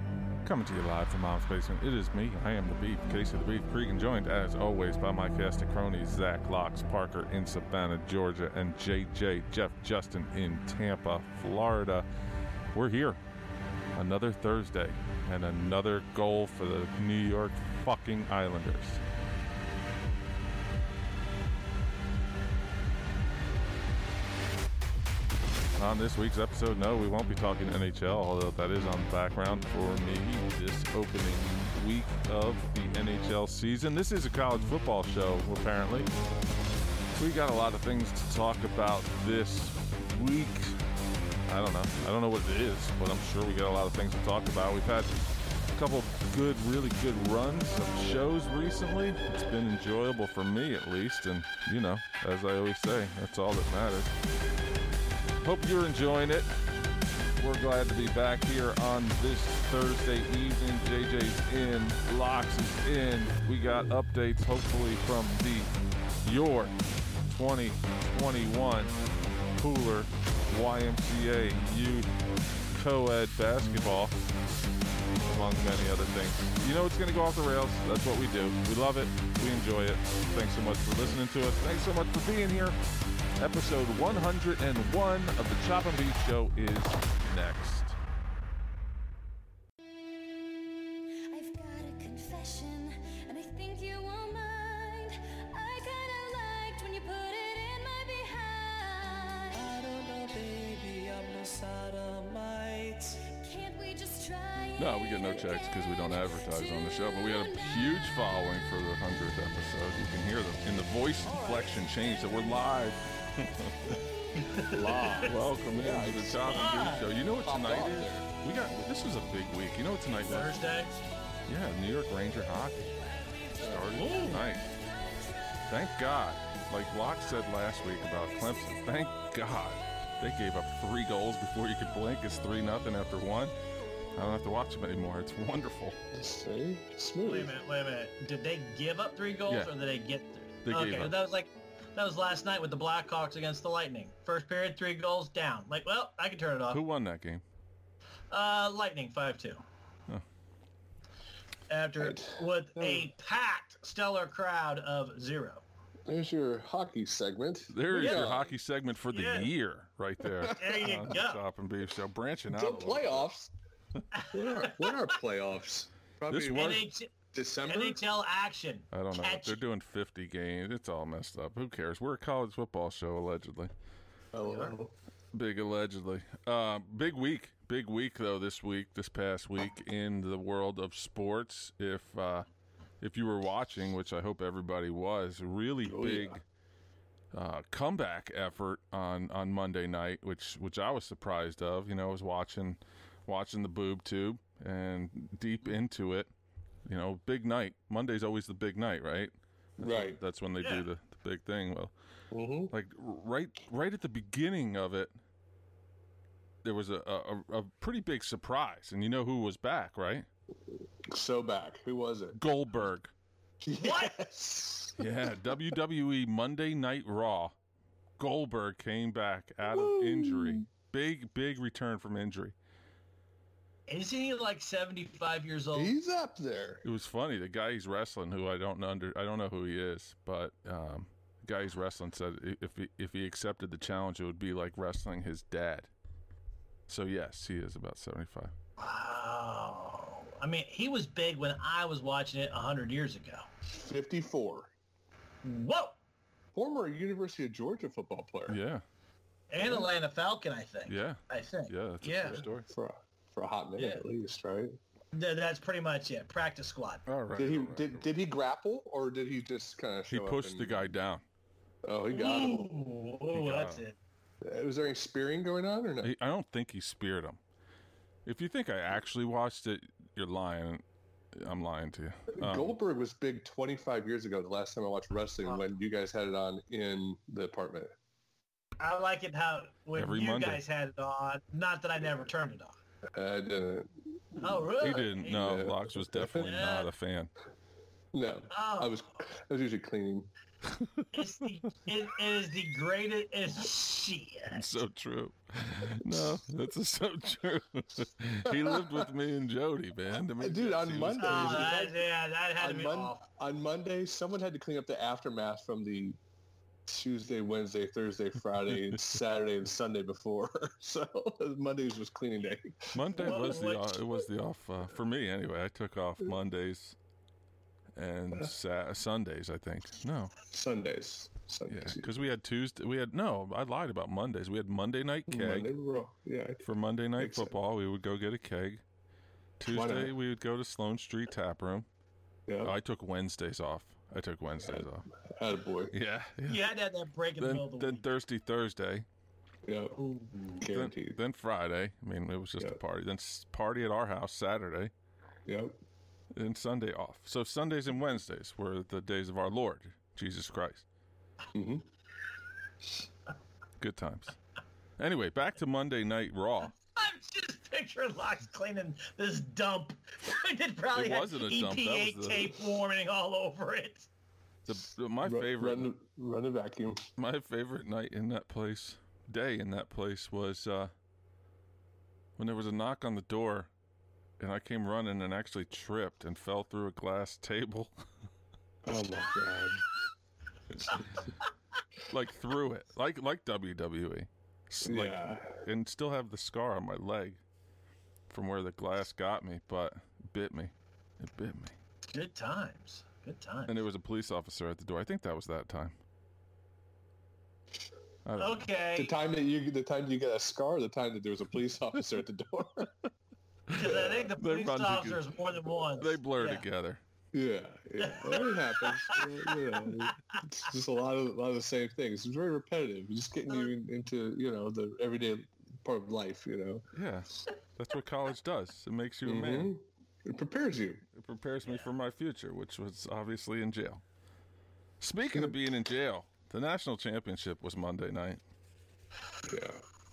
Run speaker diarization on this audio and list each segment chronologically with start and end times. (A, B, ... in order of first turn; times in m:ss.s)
0:00.4-0:12.1 A
0:12.7-0:13.2 A
0:14.0-0:19.0 A
0:25.8-0:36.1 A
0:37.2-0:40.8 A
0:41.5-0:45.1 A
0:45.7-0:54.1 A
0:55.4-0:56.5 A
0:57.4-1:05.7 A
1:06.2-1:09.0 A
1:09.6-1:12.1 A
1:12.7-1:14.2 A
1:15.2-1:22.8 A
1:23.4-1:28.0 A
1:31.3-1:40.0 B
1:39.7-1:43.2 C
1:43.2-1:48.3 B
1:44.8-1:54.0 A
1:51.3-1:51.6 B
1:54.4-1:55.3 D
1:54.6-1:56.8 E
1:54.7-2:00.6 A
1:56.4-1:57.1 D
1:57.4-1:58.3 E
2:00.2-2:00.9 D
2:01.5-2:03.0 A
2:03.6-2:04.6 A
2:03.6-2:04.0 E
2:03.8-2:05.6 B
2:04.0-2:04.4 D
2:05.7-2:13.5 A
2:08.3-2:09.2 B
2:14.1-2:16.0 A
2:16.1-2:17.5 E
2:17.2-2:26.8 D
2:20.6-2:21.2 A
2:26.7-2:27.4 A
2:28.3-2:29.6 D
2:31.7-2:35.6 D
2:32.0-2:33.1 E
2:36.1-2:38.6 E
2:37.7-2:43.3 A
2:37.9-2:38.3 D
2:39.1-2:39.5 D
2:40.2-2:41.0 E
2:40.6-2:41.4 D
2:42.5-2:43.5 E
2:44.1-2:45.0 D
2:44.3-2:48.0 E
2:46.3-2:46.9 A
2:46.5-2:47.1 D
2:47.6-2:49.6 D
2:48.9-2:53.7 A
2:54.3-2:54.9 E
2:54.4-2:54.7 D
2:55.3-3:02.5 A
3:03.0-3:06.4 A
3:05.9-3:06.4 E
3:07.3-3:16.3 A
3:16.9-3:21.9 A
3:19.8-3:20.2 E
3:20.6-3:20.8 D
3:22.3-3:22.7 E
3:22.7-3:25.1 A
3:26.6-3:30.3 A
3:31.0-3:32.4 E
3:32.4-3:33.1 A
3:33.6-3:35.1 E
3:33.8-3:34.1 D
3:35.0-3:37.5 A
3:38.2-3:42.5 A
3:39.7-3:40.6 E
3:43.9-3:45.9 D
3:45.7-3:46.8 E
3:46.8-3:55.9 A
3:56.9-3:58.5 A
3:58.8-4:03.5 D
4:03.7-4:04.7 E
4:05.4-4:06.0 D
4:06.6-4:08.6 E
4:08.5-4:08.8 A
4:09.5-4:12.4 D
4:09.6-4:09.9 E
4:10.9-4:12.7 A
4:12.3-4:14.8 E
4:13.8-4:14.0 D
4:15.1-4:17.0 D
4:17.1-4:18.1 A
4:17.4-4:20.8 E
4:20.1-4:21.2 A
4:21.8-4:22.8 E
4:22.1-4:24.0 D
4:23.3-4:23.8 A
4:24.4-4:26.1 E
4:26.0-4:27.4 A
4:28.3-4:30.8 A
4:31.4-4:32.7 A
4:32.4-4:37.9 E
4:38.8-4:42.8 D
4:40.0-4:40.6 A
4:43.1-4:44.6 E
4:44.4-4:45.5 D
4:44.8-4:47.3 A
4:45.3-4:46.5 E
4:46.4-4:46.9 D
4:48.1-4:50.3 E
4:48.5-4:49.0 D
4:50.8-4:51.1 A
4:51.1-4:54.7 D
4:54.5-5:01.7 A
4:58.5-4:58.8 E
5:00.4-5:02.1 E
5:01.2-5:03.3 D
5:02.6-5:06.2 E
5:06.9-5:13.6 E
5:12.9-5:17.0 A
5:13.2-5:14.0 D
5:18.0-5:20.4 A
5:20.4-5:22.1 E
5:21.7-5:25.7 A
5:25.3-5:26.6 E
5:26.6-5:28.8 A
5:27.2-5:27.5 E
5:29.6-5:31.9 A
5:29.7-5:30.1 E
5:32.5-5:32.7 E
5:32.6-5:35.1 A
5:34.6-5:35.9 E
5:35.9-5:36.6 A
5:36.5-5:38.1 D
5:37.4-5:39.1 A
5:39.7-5:40.0 E
5:40.0-5:40.6 D
5:40.6-5:41.2 E
5:40.7-5:44.9 A
5:45.5-5:45.8 E
5:46.4-5:50.8 A
5:51.5-5:51.8 E
5:53.8-5:54.4 A
5:55.0-5:56.7 A
5:56.6-6:04.1 D
6:00.9-6:02.5 A
6:04.6-6:05.9 A
6:05.2-6:07.0 E
6:07.2-6:10.9 A
6:12.4-6:13.7 A
6:14.4-6:17.9 A
6:18.9-6:19.8 E
6:22.1-6:27.4 A
6:24.9-6:25.6 E
6:28.3-6:31.7 A
6:32.1-6:33.8 D
6:33.7-6:36.0 A
6:38.2-6:38.7 A
6:38.4-6:39.1 D
6:39.0-6:42.9 E
6:43.7-6:45.3 A
6:43.7-6:46.6 D
6:43.8-6:44.2 E
6:45.9-6:47.0 A
6:47.3-6:56.8 E
6:48.0-6:50.4 D
6:56.9-6:59.7 A
6:59.2-7:01.0 E
7:01.2-7:04.0 A
7:05.0-7:08.4 A
7:05.3-7:05.6 E
7:09.4-7:09.8 E